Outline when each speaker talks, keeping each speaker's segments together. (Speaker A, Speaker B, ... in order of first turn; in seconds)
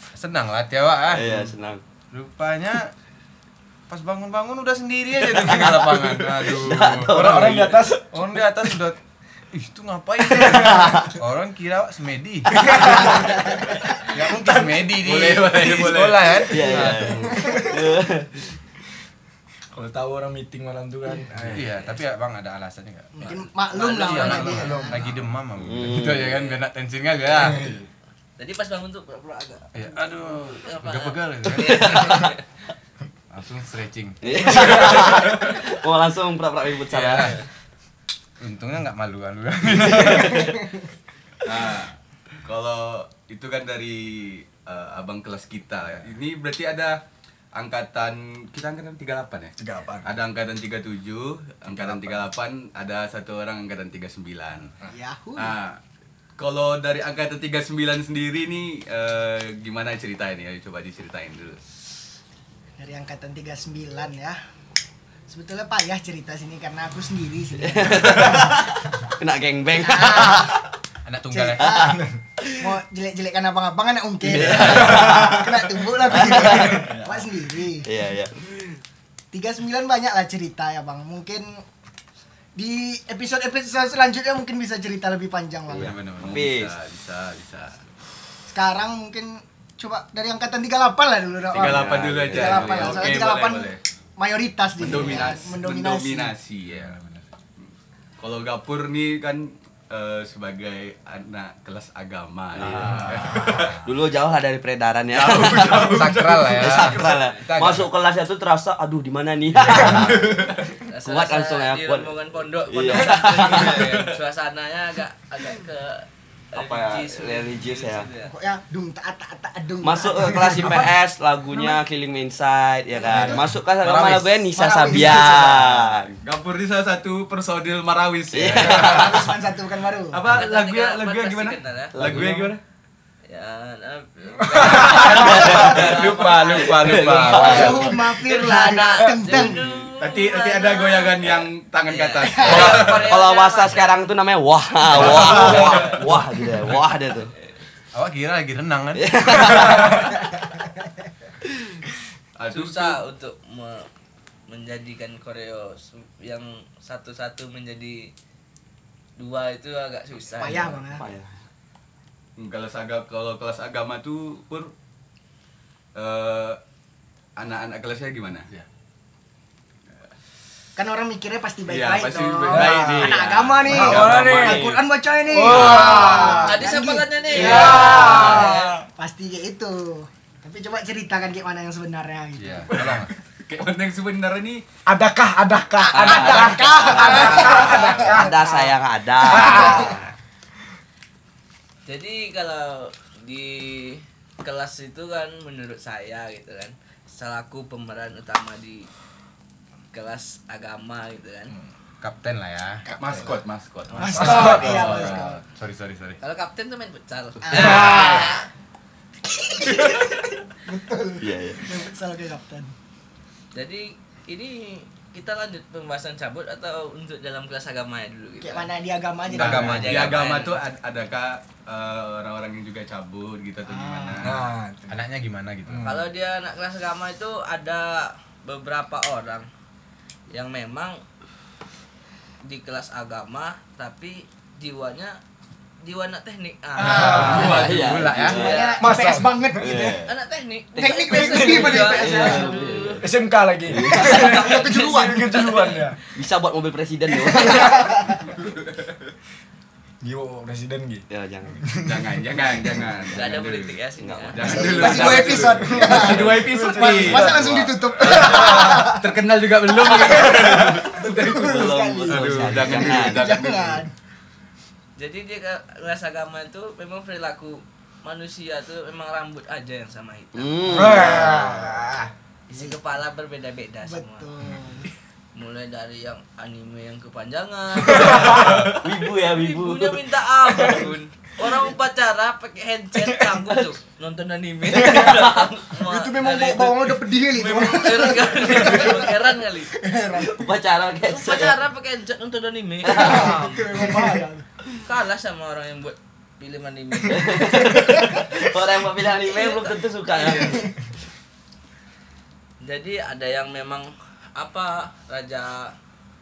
Speaker A: 0.1-1.4, 2.1-2.9, 3.9-9.0, 9.5-13.3, 14.0-17.5, 21.5-27.7, 29.7-32.2, 33.3-35.2, 36.9-37.4, 38.4-40.6, 45.8-46.1, 51.7-52.3, 71.0-72.0, 85.7-86.5, 96.7-97.2, 102.6-103.6, 105.7-107.9, 109.7-110.1, 123.8-124.3, 128.6-128.9, 135.3-138.0, 144.9-145.9, 147.9-149.8, 173.2-174.1, 182.4-183.1, 202.0-202.8, 204.2-206.2, 219.3-220.2, 224.9-225.9, 236.8-238.5
Speaker B: 1.1-1.8, 6.5-7.9, 10.4-11.1, 16.5-18.5, 25.6-26.4, 31.6-32.3, 34.2-37.4, 39.8-40.5, 67.6-70.6, 71.6-72.7, 74.2-77.1, 77.8-78.7, 85.7-86.7, 91.5-93.1, 102.5-112.1, 112.7-114.0, 116.5-118.1, 119.8-126.2, 128.3-129.3, 131.9-132.6, 134.9-135.9, 136.7-137.9, 142.4-147.3, 148.9-150.2, 151.4-151.7, 160.5-161.3, 173.9-174.7, 186.0-190.1, 211.2-211.6, 237.1-238.8, 239.6-240.1, 240.9-243.0, 243.7-244.9, 246.1-247.9, 251.1-251.6, 254.0-256.0, 261.4-263.3, 270.3-271.8, 278.1-280.0, 284.7-285.6, 290.1-291.6, 292.8-293.5, 297.0-300.7
Speaker C: 7.0-8.1, 12.7-12.9, 19.7-21.7, 27.4-27.8, 49.6-50.1, 74.6-75.2, 123.1-123.4, 134.4-135.4, 172.5-176.6, 177.3-178.8, 184.9-188.7, 189.2-190.1, 204.1-204.9, 207.5-208.1, 224.2-225.0, 225.7-226.0, 236.8-237.6, 238.8-239.9, 241.1-242.4, 243.0-246.0, 247.5-247.7, 250.0-252.2, 255.5-258.9, 260.2-260.9, 270.7-272.1, 277.8-278.7, 293.8-294.2
Speaker D: 13.1-13.7, 17.2-17.6, 23.1-25.0, 54.9-55.6, 62.8-64.4, 65.3-68.7, 69.8-70.6, 71.3-72.0, 72.6-77.9, 79.3-81.6, 82.5-86.0, 88.5-96.3, 118.2-120.9, 121.5-121.8, 123.1-123.5, 124.5-125.6, 128.6-130.3, 137.3-139.6, 142.3-142.8, 160.4-161.0, 170.8-182.9, 185.9-188.7, 189.4-189.8, 202.9-203.3, 204.0-205.4, 207.4-208.4, 209.2-212.7, 218.4-220.1, 223.6-224.3, 236.8-239.9, 240.8-242.5, 244.1-245.1, 247.7-248.2, 254.4-259.1, 261.0-262.1, 262.6-263.9, 272.5-272.8, 273.8-274.9, 285.8-289.2, 289.7-290.5, 292.9-294.4, 300.3-300.7
Speaker E: 14.4-16.5, 41.4-47.0, 47.5-54.7, 55.4-55.8, 56.4-61.6, 86.2-87.8, 91.5-93.8, 94.8-97.0, 97.6-103.8, 105.1-107.1, 109.7-110.7, 113.2-114.1, 126.2-129.2, 130.1-132.6, 136.3-136.6, 139.6-143.1, 144.9-145.9, 152.4-153.0, 162.4-164.7, 165.9-166.6, 167.4-168.5, 171.7-174.1, 183.4-184.6, 203.0-205.4, 219.7-224.4, 248.4-248.8, 251.8-253.8, 254.3-263.8
Speaker F: 23.7-24.9, 26.2-26.5, 28.4-32.4, 107.0-107.4, 110.9-118.3, 130.3-131.9, 133.2-143.9, 145.0-146.0, 152.5-153.8, 154.5-158.1, 159.2-160.8, 176.3-178.8, 186.7-187.8, 191.9-198.9, 199.9-201.5, 206.2-208.4, 213.5-218.7, 219.3-220.6, 225.8-229.5, 230.3-231.0, 232.4-235.2, 235.8-239.0, 240.0-243.0, 243.9-245.9, 253.1-255.1, 265.0-270.9, 272.5-274.3, 275.3-278.6, 279.3-289.7, 291.1-294.0, 294.8-298.2, 299.2-300.5, 302.6-305.7